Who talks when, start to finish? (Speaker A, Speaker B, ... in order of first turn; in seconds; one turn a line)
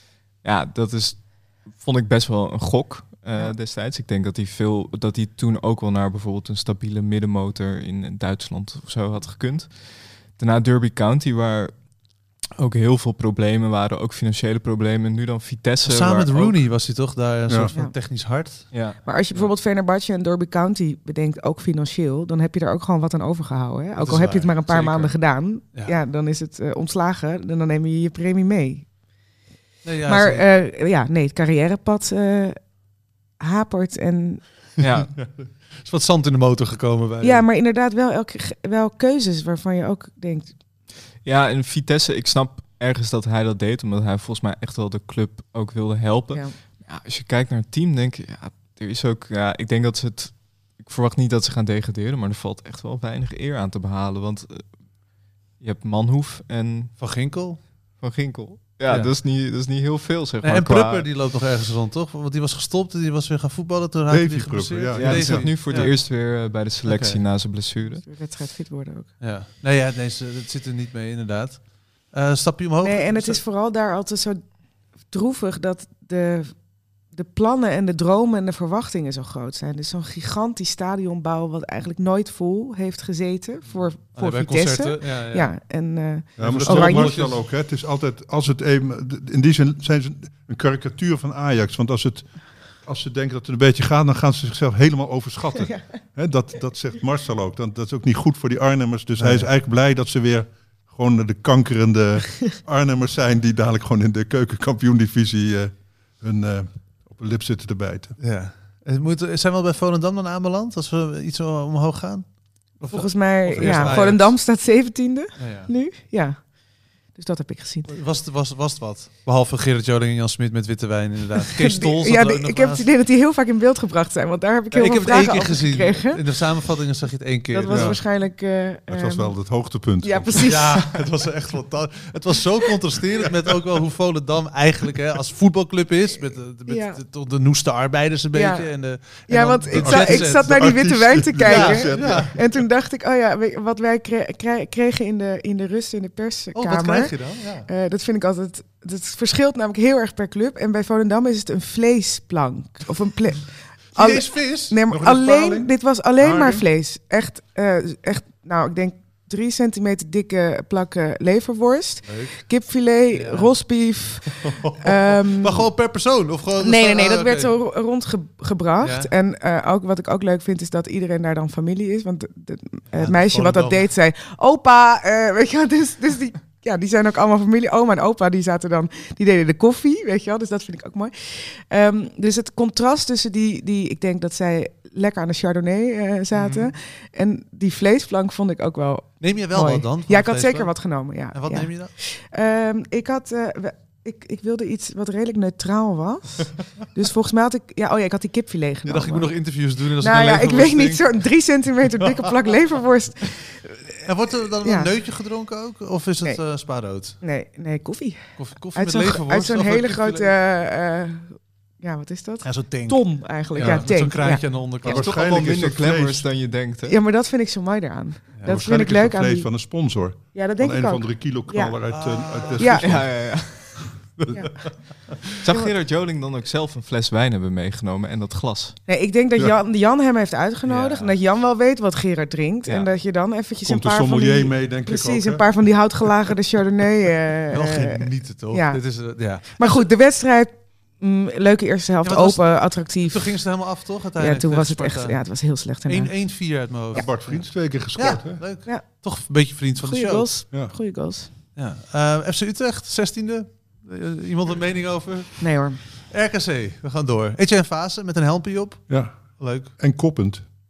Speaker A: 0.4-9.7
Speaker A: 10.3-11.7
Speaker A: 12.6-16.6
Speaker B: 15.8-18.7
Speaker A: 18.7-19.0
Speaker C: 19.1-28.9
Speaker B: 24.0-25.1
Speaker B: 29.8-30.5
Speaker C: 30.1-32.6
Speaker C: 33.4-34.4
Speaker A: 34.8-35.1
Speaker B: 35.7-37.4
Speaker C: 37.2-40.5
Speaker A: 41.2-54.6
Speaker A: 55.6-57.0
Speaker B: 57.0-57.6
Speaker A: 58.0-61.1
Speaker B: 58.9-59.1
Speaker B: 60.4-66.0
Speaker D: 64.1-65.9
Speaker A: 65.0-68.0
Speaker B: 66.8-67.2
Speaker C: 68.0-69.1
Speaker B: 69.2-73.4
Speaker C: 72.8-74.5
Speaker C: 75.1-76.6
Speaker C: 77.1-87.2
Speaker B: 84.2-85.5
Speaker D: 86.4-108.2
Speaker B: 86.4-87.4
Speaker B: 99.2-99.5
Speaker B: 108.2-114.4
Speaker C: 112.9-116.5
Speaker D: 113.6-114.1
Speaker B: 115.4-115.7
Speaker C: 117.1-117.9
Speaker B: 117.9-122.9
Speaker C: 121.6-126.2
Speaker B: 124.7-128.0
Speaker C: 127.5-129.3
Speaker D: 127.7-128.0
Speaker D: 128.9-130.5
Speaker C: 130.0-130.9
Speaker B: 130.4-140.8
Speaker C: 136.7-137.0
Speaker C: 138.3-165.7
Speaker D: 139.7-142.6
Speaker B: 141.4-142.4
Speaker B: 146.5-147.7
Speaker B: 153.9-154.8
Speaker D: 154.9-156.7
Speaker B: 162.1-162.4
Speaker B: 163.1-163.5
Speaker B: 164.4-167.5
Speaker C: 166.6-199.3
Speaker B: 168.8-169.1
Speaker B: 172.9-173.9
Speaker B: 186.3-186.7
Speaker B: 189.2-190.7
Speaker B: 191.3-191.9
Speaker B: 198.9-201.1
Speaker C: 200.0-204.1
Speaker B: 204.1-207.2
Speaker C: 204.6-204.9
Speaker C: 207.2-214.4
Speaker B: 208.4-210.3
Speaker B: 212.4-215.1
Speaker D: 213.6-213.9
Speaker D: 214.8-216.3
Speaker A: 214.8-217.0
Speaker C: 216.9-219.5
Speaker D: 218.4-223.5
Speaker C: 220.3-221.8
Speaker B: 221.9-222.8
Speaker C: 222.6-222.9
Speaker A: 222.8-223.8
Speaker C: 224.3-224.6
Speaker A: 225.4-228.8
Speaker C: 228.9-243.4
Speaker B: 230.7-231.2
Speaker D: 233.7-235.8
Speaker B: 237.5-239.9
Speaker B: 242.0-245.2
Speaker C: 244.2-247.1
Speaker B: 245.8-250.3
Speaker D: 246.9-248.4
Speaker C: 249.8-251.3
Speaker B: 251.6-259.7
Speaker C: 255.4-255.8
Speaker D: 258.9-260.4